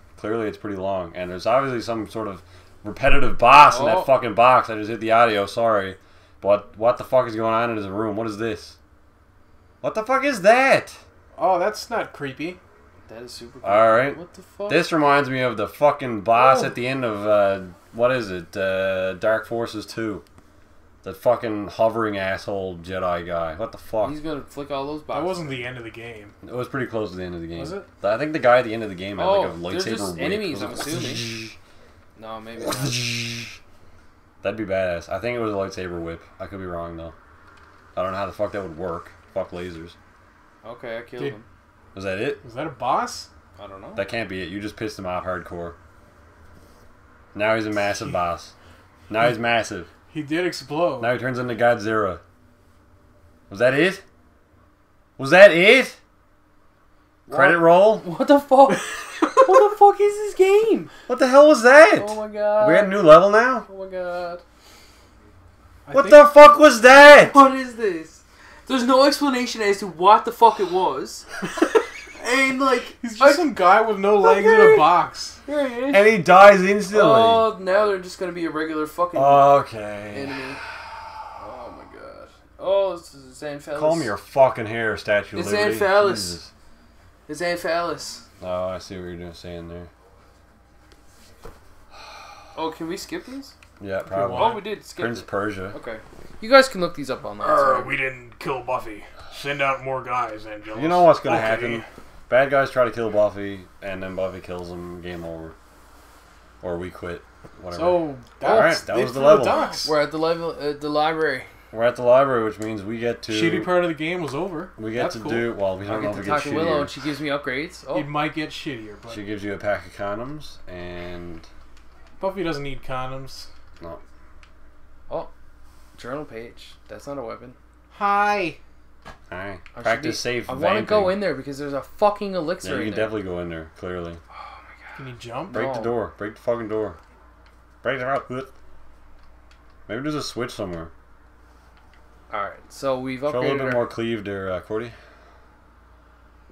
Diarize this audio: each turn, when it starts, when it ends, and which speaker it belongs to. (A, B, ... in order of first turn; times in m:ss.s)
0:00.2-0:08.8 A
0:03.5-0:04.1 B
0:09.8-0:11.0 A
0:11.4-0:12.6 C
0:13.1-0:14.9 B
0:13.6-0:20.2 A
0:21.0-0:24.2 A
0:24.0-0:25.6 B
0:25.1-0:26.3 C
0:26.4-0:31.5 A
0:27.5-0:27.9 C
0:29.2-0:31.3 B
0:32.2-0:33.3 B
0:32.6-0:33.6 A
0:34.4-0:37.1 A
0:37.9-0:40.0 A
0:40.6-0:41.4 B
0:41.9-0:42.4 A
0:42.4-0:43.3 C
0:43.6-0:44.0 B
0:44.0-0:45.8 A
0:47.3-0:48.5 A
0:49.1-0:49.9 A
0:50.1-0:51.1 C
0:51.0-0:52.2 A
0:53.5-0:54.0 A
0:55.2-0:56.0 A
0:57.3-1:00.9 B
0:57.3-0:58.1 A
1:01.1-1:03.7 A
1:02.0-1:03.1 B
1:03.6-1:04.4 B
1:05.8-1:06.2 C
1:05.9-1:07.4 A
1:07.2-1:13.6 B
1:13.0-1:15.4 C
1:14.2-1:14.9 B
1:15.4-1:16.1 B
1:15.9-1:17.5 A
1:16.9-1:19.6 B
1:19.1-1:21.1 A
1:20.1-1:20.6 B
1:21.4-1:24.1 B
1:23.7-1:26.5 A
1:25.3-1:26.4 B
1:27.3-1:28.2 B
1:28.4-1:29.9 A
1:32.5-1:33.5 B
1:33.8-1:35.8 A
1:34.0-1:34.7 C
1:34.3-1:38.0 B
1:37.4-1:41.8 C
1:40.7-1:45.5 A
1:46.6-1:49.7 A
1:47.7-1:49.9 C
1:48.4-1:48.8 B
1:49.5-1:51.5 B
1:51.7-1:53.9 A
1:53.3-1:55.6 C
1:54.8-1:56.9 A
1:55.8-1:58.1 B
1:57.9-1:59.2 C
1:59.1-2:01.5 A
2:02.2-2:03.5 C
2:06.0-2:07.6 B
2:07.9-2:08.6 C
2:09.3-2:11.2 A
2:09.7-2:13.2 B
2:12.6-2:14.2 A
2:14.4-2:16.0 B
2:15.0-2:15.6 C
2:15.5-2:17.0 A
2:17.8-2:18.5 A
2:19.9-2:20.9 A
2:22.3-2:23.9 B
2:23.3-2:24.9 A